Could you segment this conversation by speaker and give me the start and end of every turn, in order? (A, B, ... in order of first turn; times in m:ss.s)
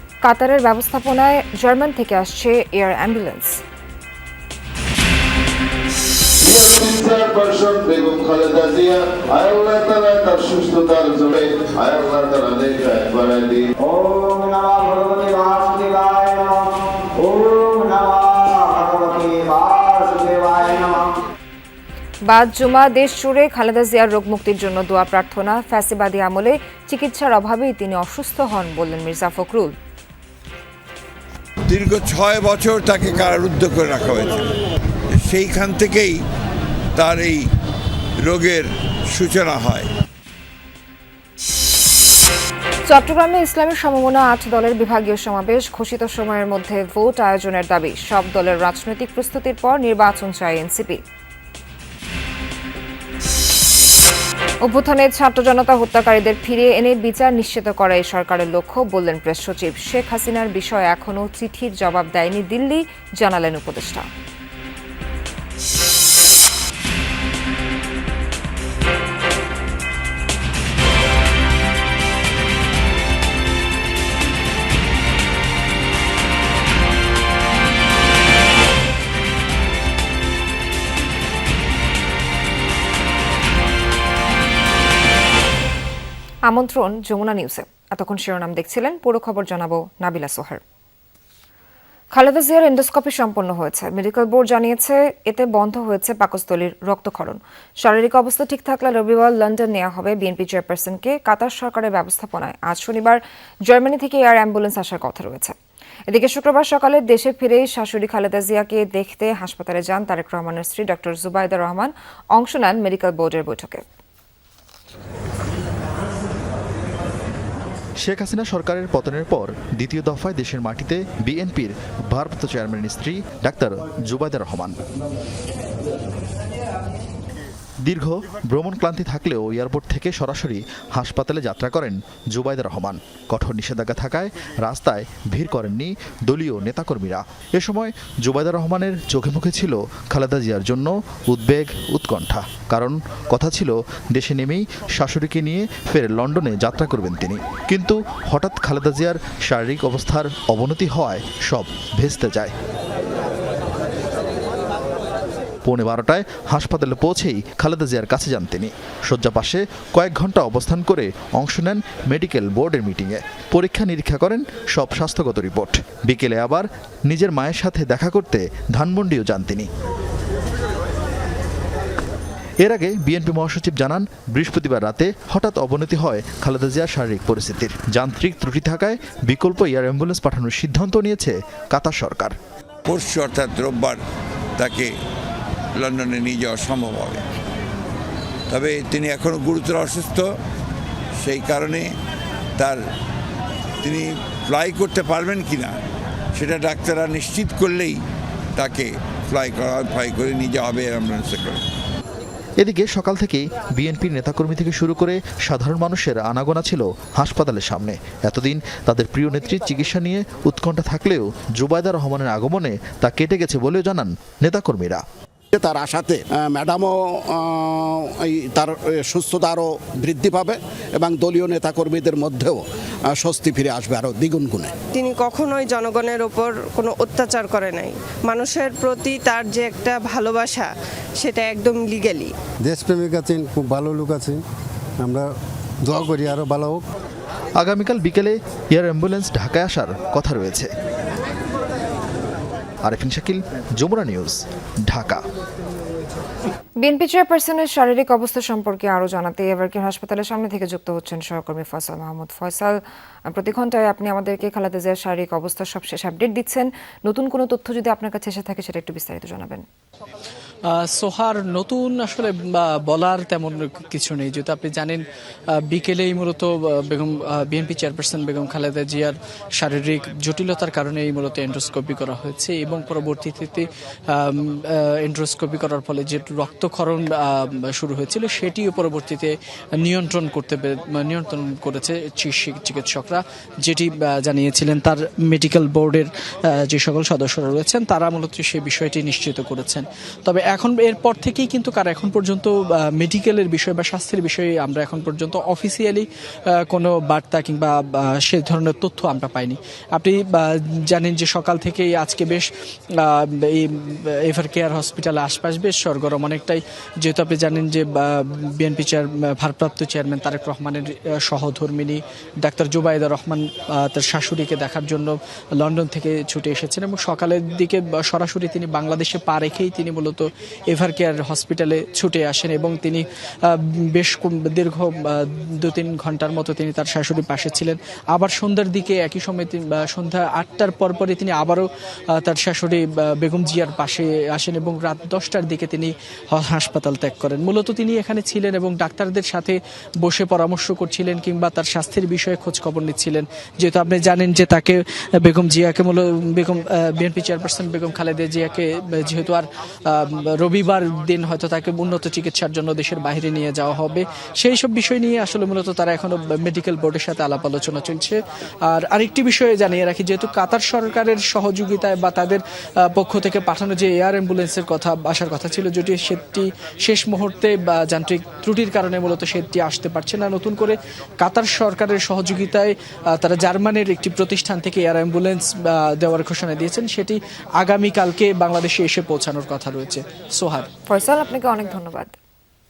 0:00.2-0:03.6 A
0:06.4-0:13.6 B
0:13.9-0:16.6 C
0:17.2-0:20.9 C
0:22.3-0:29.7 A
0:31.7-0:34.3 D
0:35.2-0:36.2 D
0:37.0-0:37.4 D
0:38.2-0:39.9 D
0:42.9-0:51.0 A
0:54.6-1:04.0 A
1:26.5-1:30.6 A
1:32.1-1:45.6 A
1:46.1-1:53.8 A
1:58.0-2:04.8 E
2:07.8-2:32.5 E
2:35.6-2:49.7 E
2:52.6-3:02.3 E
3:02.9-3:04.0 D
3:04.6-3:04.9 D
3:05.8-3:07.2 D
3:08.5-3:10.3 D
3:11.2-3:11.9 D
3:13.8-3:15.8 D
3:16.4-3:18.0 D
3:18.6-3:21.6 D
3:22.6-3:35.0 E
3:35.6-3:36.9 F
3:38.3-3:42.6 F
3:43.2-3:44.7 F
3:45.0-3:50.7 G
3:51.2-3:52.3 G
3:52.6-3:54.4 H
3:55.0-3:55.3 H
3:55.8-3:56.8 H
3:57.6-4:00.7 E
4:02.8-4:05.2 E
4:06.8-4:19.6 A
4:20.8-4:25.0 I
4:25.7-4:56.1 I
4:56.7-5:02.5 I
5:03.0-5:58.2 I
5:58.7-6:20.7 I
6:20.9-6:22.1 A